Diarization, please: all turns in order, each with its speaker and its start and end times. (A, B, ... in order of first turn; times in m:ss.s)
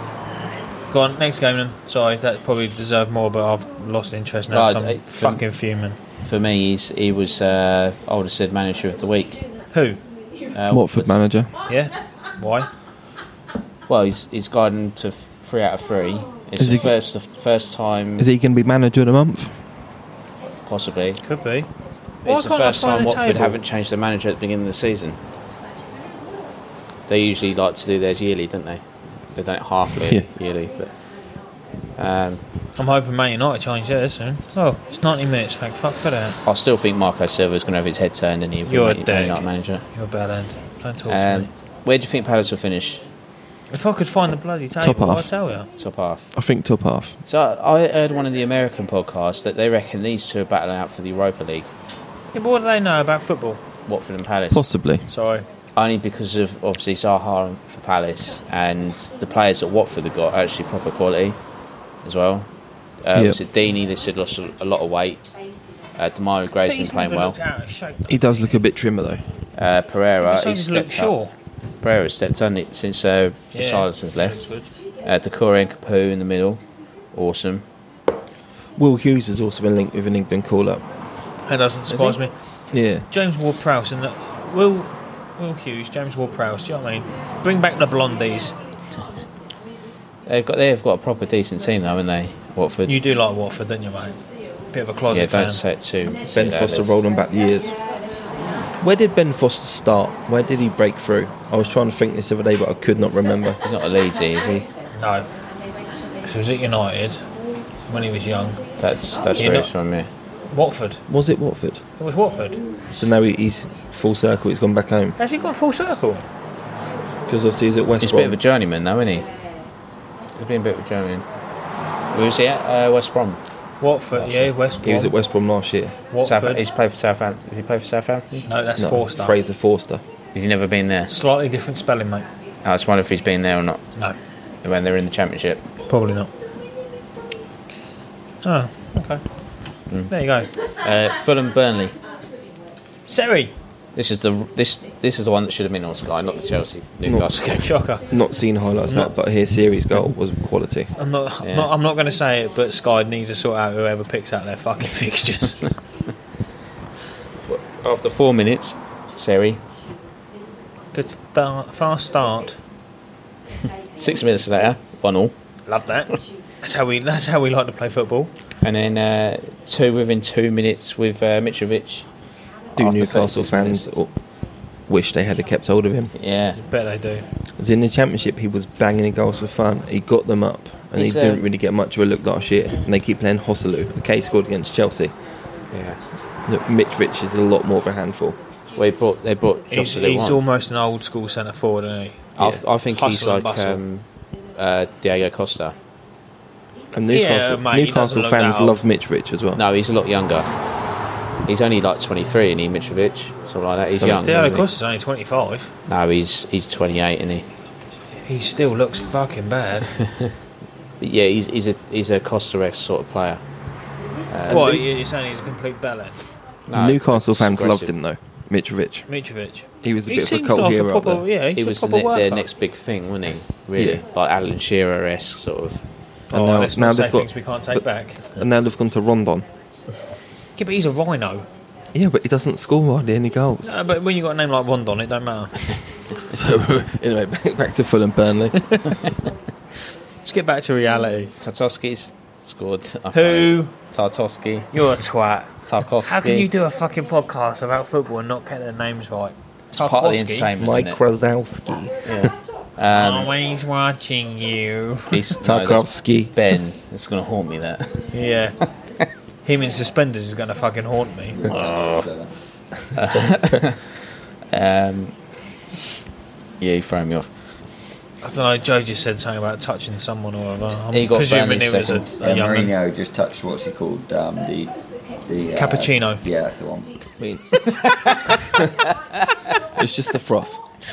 0:00.9-0:06.0 A
0:04.5-0:05.4 B
0:06.2-0:09.4 B
0:09.7-0:10.0 A
0:10.5-0:11.2 B
0:10.7-0:11.5 C
0:11.6-0:12.7 A
0:13.9-0:18.3 B
0:16.6-0:16.9 C
0:18.2-0:19.9 C
0:20.6-0:21.2 B
0:21.2-0:21.7 A
0:22.2-0:23.6 A
0:22.2-0:25.2 B
0:27.1-0:31.0 B
0:32.0-0:32.4 B
0:32.8-0:36.4 A
0:36.4-0:39.8 B
0:38.6-0:41.5 A
0:41.1-0:43.0 B
0:43.7-0:45.7 A
0:44.8-0:45.3 C
0:45.8-0:46.3 B
0:46.3-0:47.2 C
0:47.2-0:51.7 B
0:52.3-0:53.6 A
0:53.8-0:54.6 B
0:54.5-0:55.1 C
0:55.1-0:55.4 A
0:55.7-1:01.4 B
1:02.0-1:05.3 B
1:03.1-1:03.4 C
1:05.9-1:07.4 B
1:06.6-1:08.2 A
1:08.1-1:09.3 C
1:09.5-1:11.2 B
1:10.2-1:11.3 A
1:11.8-1:14.4 B
1:13.5-1:14.7 A
1:15.0-1:17.6 B
1:18.8-1:20.8 C
1:21.4-1:22.3 A
1:22.7-1:23.0 C
1:23.0-1:28.6 A
1:30.2-1:33.0 B
1:32.8-1:35.6 A
1:35.1-1:36.9 B
1:36.3-1:37.8 C
1:38.7-1:43.6 C
1:43.6-1:44.7 B
1:44.9-1:45.3 A
1:46.2-1:47.2 A
1:47.9-1:48.7 A
1:48.8-1:50.1 B
1:49.3-1:49.7 A
1:50.5-1:51.0 A
1:51.1-1:51.8 C
1:52.0-1:52.6 A
1:52.9-1:55.2 C
1:55.2-1:56.3 A
1:57.3-1:58.4 C
1:58.0-1:59.3 B
2:00.3-2:01.3 B
2:02.1-2:03.4 B
2:03.8-2:05.1 A
2:04.1-2:04.5 B
2:04.8-2:06.0 C
2:06.1-2:06.6 A
2:06.2-2:08.5 B
2:08.4-2:09.4 A
2:08.8-2:10.0 C
2:10.3-2:11.1 B
2:11.1-2:12.3 A
2:12.6-2:13.8 B
2:14.6-2:15.6 B
2:15.9-2:16.3 A
2:18.4-2:19.2 A
2:20.1-2:20.5 A
2:20.7-2:22.0 B
2:23.0-2:23.5 A
2:23.9-2:28.0 B
2:27.0-2:27.4 C
2:27.6-2:28.1 A
2:28.0-2:30.9 C
2:28.9-2:29.1 A
2:31.0-2:35.7 A
2:31.4-2:31.7 B
2:37.4-2:39.6 B
2:40.9-2:42.6 A
2:43.9-2:45.3 B
2:45.6-2:48.3 A
2:48.6-2:53.9 B
2:52.7-2:56.1 C
2:56.1-2:56.6 B
2:56.6-2:57.3 A
2:57.6-3:05.2 C
3:00.9-3:01.4 B
3:05.7-3:06.0 B
3:06.5-3:08.4 C
3:08.7-3:10.4 B
3:09.7-3:13.8 A
3:12.4-3:15.8 B
3:16.9-3:19.6 C
3:17.1-3:18.8 A
3:19.5-3:20.5 B
3:21.4-3:24.6 B
3:23.9-3:24.6 C
3:24.1-3:25.7 A
3:25.9-3:27.5 B
3:28.2-3:30.0 A
3:31.0-3:33.4 B
3:34.3-3:34.9 B
3:34.4-3:36.2 A
3:36.7-3:37.9 B
3:36.7-3:39.1 C
3:39.1-3:42.5 A
3:39.8-3:41.2 C
3:41.5-3:45.8 B
3:43.8-3:44.0 C
3:46.3-3:49.5 C
3:46.3-3:48.2 A
3:50.6-3:51.5 A
3:51.9-3:53.8 C
3:53.6-3:55.6 A
3:56.3-3:58.9 C
4:00.2-4:01.3 A
4:01.4-4:04.7 B
4:03.1-4:03.7 A
4:04.7-4:10.5 A
4:05.6-4:06.5 B
4:09.7-4:11.0 B
4:10.6-4:12.3 C
4:12.0-4:13.4 B
4:12.9-4:15.3 A
4:15.1-4:18.1 B
4:15.4-4:16.3 C
4:18.1-4:18.6 A
4:19.4-4:21.4 A
4:21.3-4:22.3 D
4:21.5-4:22.1 B
4:22.9-4:25.2 B
4:26.6-4:27.3 B
4:28.2-4:32.7 A
4:30.9-4:32.6 B
4:32.2-4:37.0 D
4:35.5-4:36.2 A
4:37.2-4:39.3 B
4:39.8-4:40.6 C